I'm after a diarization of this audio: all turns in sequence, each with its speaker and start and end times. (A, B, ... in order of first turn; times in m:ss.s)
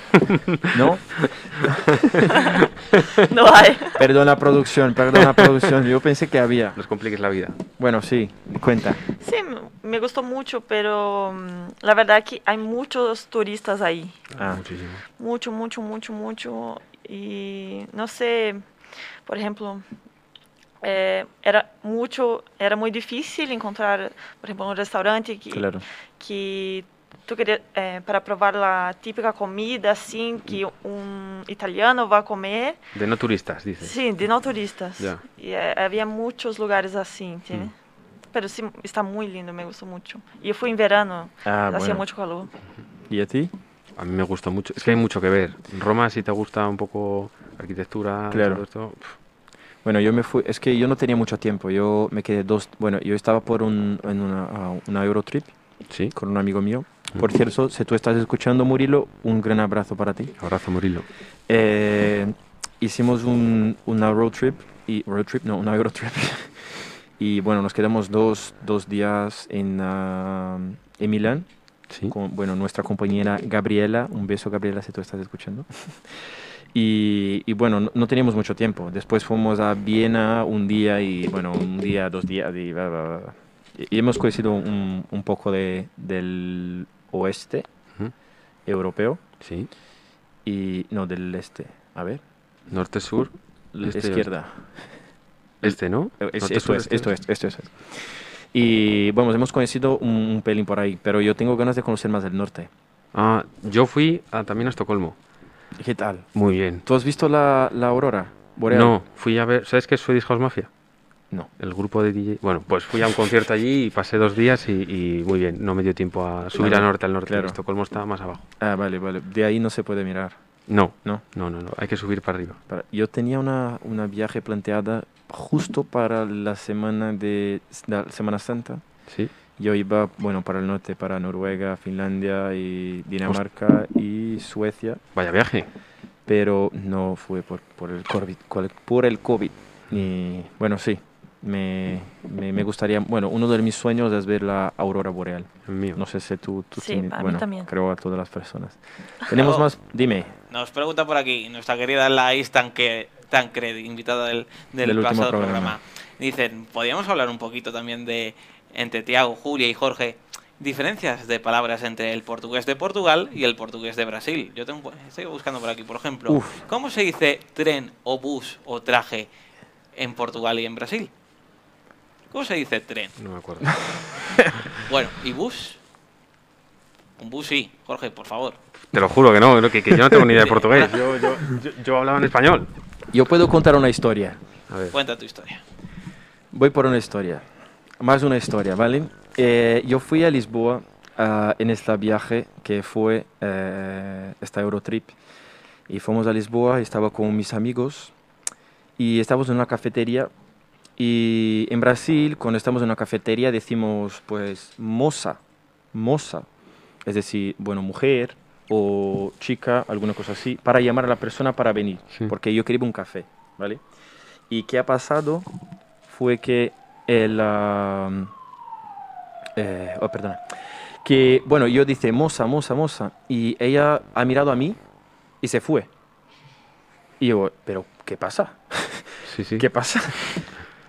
0:00.2-0:00.8 A
0:00.7-0:02.4 B
0:02.2-0:03.2 A
0:02.3-0:02.6 C
0:03.2-0:04.0 C
0:04.0-0:06.8 B
0:05.2-0:05.5 A
0:06.8-0:07.6 A
0:07.8-0:09.0 B
0:09.2-0:14.2 C
0:14.3-0:15.0 A
0:15.2-0:18.6 C
0:19.2-0:19.8 C
0:20.8-0:32.8 C
0:25.5-0:25.8 B
0:32.9-0:34.0 A
0:33.8-0:37.7 C
0:38.3-0:42.5 C
0:41.4-0:42.0 B
0:43.1-0:43.5 B
0:44.0-0:49.1 A
0:48.3-0:48.6 B
0:49.8-0:55.5 B
0:55.9-0:56.1 A
0:56.1-1:00.3 B
1:00.4-1:01.1 A
1:01.5-1:11.5 B
1:12.1-1:15.7 B
1:16.7-1:27.7 B
1:28.6-1:29.2 B
1:29.4-1:29.7 A
1:30.4-1:32.2 B
1:32.7-1:34.3 A
1:33.7-1:34.6 B
1:35.6-1:37.1 A
1:35.6-1:37.7 B
1:38.5-1:42.7 B
1:43.1-1:45.2 A
1:45.8-1:46.3 B
1:46.3-1:46.8 A
1:46.8-1:48.9 B
1:48.7-1:50.7 A
1:51.6-1:58.4 A
1:56.6-1:57.6 B
1:58.6-2:00.4 B
2:00.7-2:02.6 A
2:02.7-2:08.8 B
2:09.1-2:09.3 A
2:09.6-2:15.0 B
2:15.1-2:15.7 A
2:16.3-2:30.3 B
2:25.6-2:26.0 A
2:26.8-2:27.7 C
2:29.3-2:29.6 D
2:30.5-2:49.3 D
2:34.8-2:35.8 B
2:46.3-2:46.6 B
2:49.9-2:51.1 D
2:52.3-2:53.2 D
2:53.2-2:53.9 A
2:53.6-2:54.6 B
2:54.8-2:55.8 D
2:57.2-2:58.6 D
2:58.8-3:02.7 A
3:00.3-3:01.0 D
3:03.1-3:04.4 B
3:04.7-3:05.0 A
3:04.9-3:05.6 D
3:06.5-3:07.4 B
3:08.0-3:15.1 B
3:15.9-3:18.1 B
3:19.0-3:20.3 B
3:21.0-3:25.4 B
3:25.9-3:26.5 B
3:27.0-3:33.8 B
3:34.5-3:35.4 B
3:36.0-3:38.3 B
3:39.6-3:40.4 B
3:41.0-3:44.8 B
3:45.4-3:45.9 B
3:47.2-3:50.5 B
3:49.2-3:49.6 A